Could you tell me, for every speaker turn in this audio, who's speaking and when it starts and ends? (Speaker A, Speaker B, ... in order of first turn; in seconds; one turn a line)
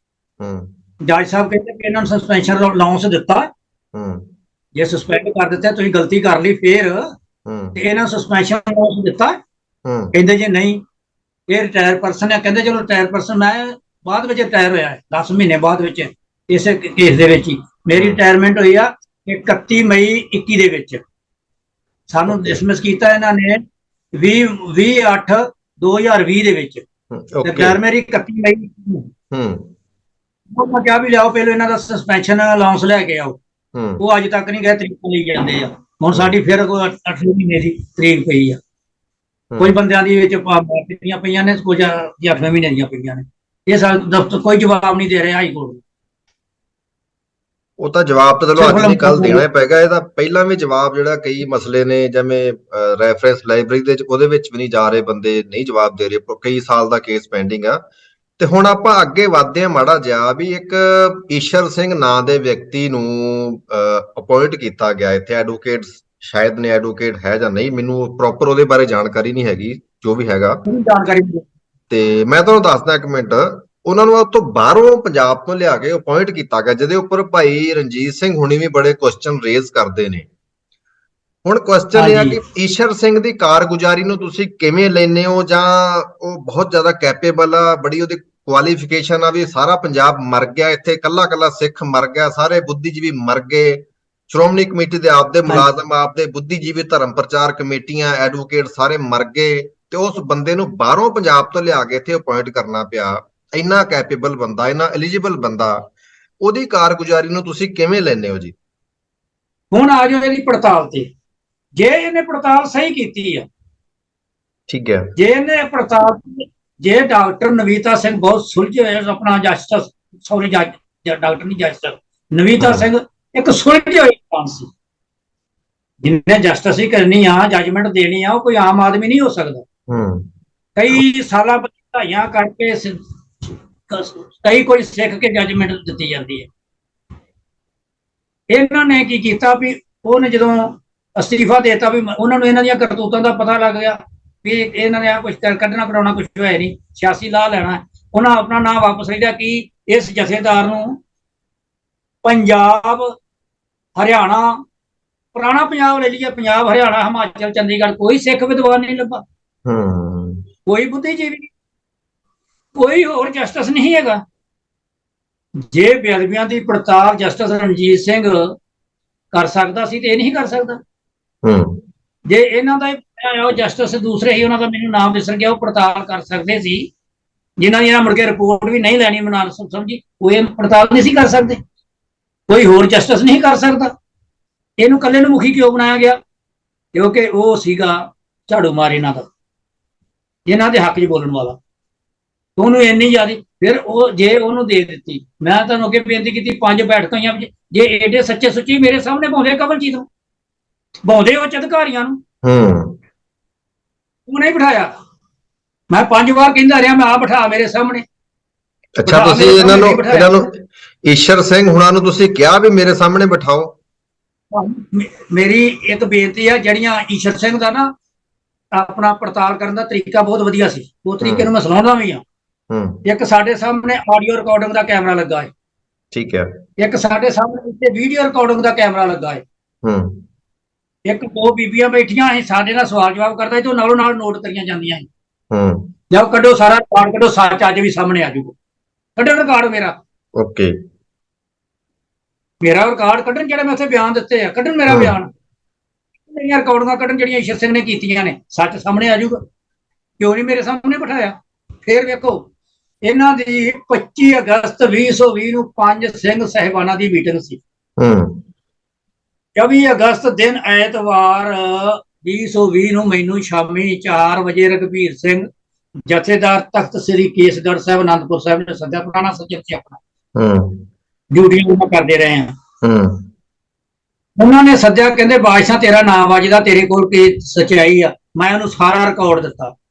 Speaker A: 0.4-0.7
Speaker B: 1.1-3.5
Speaker A: 3.9-4.3
Speaker B: 4.7-7.1
Speaker A: 7.5-7.8
Speaker B: 7.8-9.4
Speaker A: 9.8-10.1
Speaker B: 10.1-10.8
Speaker B: 11.5-21.0
Speaker A: 17.9-18.2
Speaker B: 22.1-23.6
Speaker A: 22.3-22.6
Speaker B: 24.1-26.8
Speaker A: 27.1-27.8
Speaker B: 27.4-29.1
Speaker A: 29.3-29.7
Speaker B: 30.5-33.4
Speaker A: 33.7-34.0
Speaker B: 34.0-38.6
Speaker A: 39.5-39.8
Speaker B: 39.6-45.8
Speaker A: 47.8-57.8
Speaker B: 48.5-49.4
Speaker A: 58.4-70.6
Speaker B: 70.7-71.4
Speaker A: 71.9-80.3
Speaker A: 81.4-105.9
Speaker B: 81.9-82.4
Speaker A: 106.4-108.5
Speaker B: 109.7-111.1
Speaker B: 111.8-113.5
Speaker A: 114.7-115.1
Speaker B: 115.2-124.7
Speaker A: 122.6-122.8
Speaker B: 126.0-129.6
Speaker A: 129.9-130.3
Speaker B: 130.8-136.5
Speaker B: 138.5-151.0
Speaker B: 152.2-153.1
Speaker B: 154.0-154.6
Speaker B: 155.3-159.2
Speaker A: 159.7-160.4
Speaker B: 160.7-161.5
Speaker B: 162.8-164.2
Speaker B: 165.7-168.5
Speaker B: 169.3-170.8
Speaker A: 171.4-171.8
Speaker B: 172.3-176.9
Speaker B: 177.6-181.6
Speaker B: 182.5-183.9
Speaker B: 184.8-186.2
Speaker B: 186.9-189.3
Speaker B: 190.5-191.6
Speaker B: 192.6-200.1
Speaker B: 201.0-202.2
Speaker A: 202.4-203.0
Speaker B: 204.3-204.9
Speaker B: 205.9-208.0
Speaker A: 209.0-213.7
Speaker B: 209.0-210.4
Speaker B: 214.5-217.9
Speaker B: 218.7-222.2
Speaker A: 221.2-221.5
Speaker A: 222.7-223.0
Speaker B: 223.0-225.5
Speaker A: 226.1-226.5
Speaker B: 226.8-229.4
Speaker A: 229.8-230.2
Speaker B: 231.1-235.1
Speaker A: 235.5-235.9
Speaker B: 236.1-238.5
Speaker B: 239.2-239.9
Speaker A: 240.3-240.8
Speaker B: 242.6-245.3
Speaker A: 244.9-245.1
Speaker B: 246.3-249.4
Speaker B: 250.2-252.4
Speaker B: 253.0-257.6
Speaker A: 258.0-258.4
Speaker B: 259.6-265.4
Speaker B: 266.1-270.0
Speaker A: 270.4-270.9
Speaker B: 271.3-272.6
Speaker A: 272.8-273.3
Speaker B: 274.4-279.7